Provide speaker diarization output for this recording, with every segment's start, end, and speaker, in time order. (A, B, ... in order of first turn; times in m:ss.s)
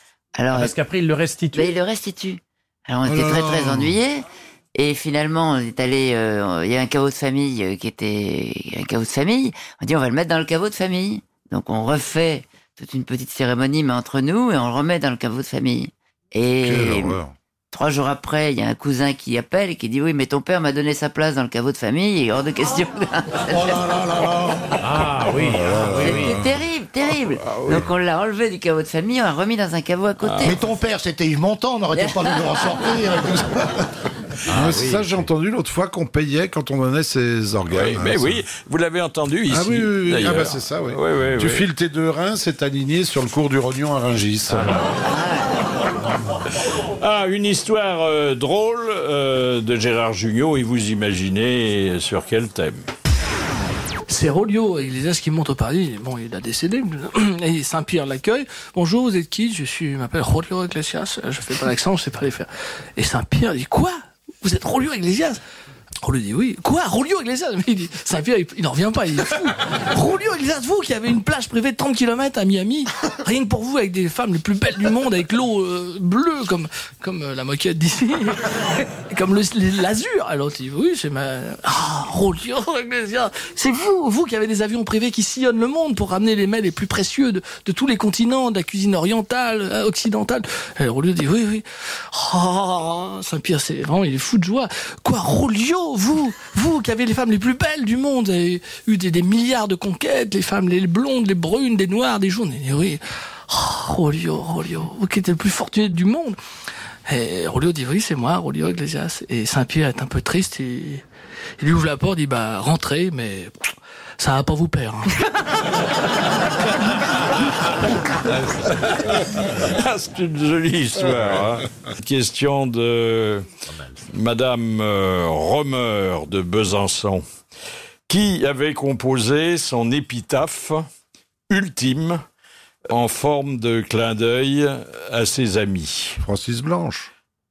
0:00.3-0:00.7 A
0:00.5-0:01.8 B
0:01.5-0:17.2 A
0:03.0-0:03.9 C
0:16.6-0:17.3 C
0:17.7-0:23.8 A
0:23.5-0:24.8 D
0:24.8-0:26.5 B
0:25.3-0:26.5 C
0:26.0-0:30.6 A
0:30.2-0:30.6 E
0:30.4-0:33.9 D
0:32.0-0:32.4 A
0:34.5-0:35.2 B
0:34.5-0:38.4 C
0:37.7-0:41.7 E
0:39.5-0:44.8 C
0:44.5-0:45.0 B
0:45.1-0:45.5 A
0:47.0-0:52.8 E
0:54.1-1:05.4 F
1:06.0-1:46.4 F
1:47.1-1:51.0 F
1:51.6-1:53.5 F
1:54.2-1:55.3 F
1:59.4-2:03.4 E
2:04.1-2:07.2 E
2:08.1-2:10.8 E
2:11.5-2:12.2 E
2:12.9-2:16.2 E
2:16.2-2:17.1 C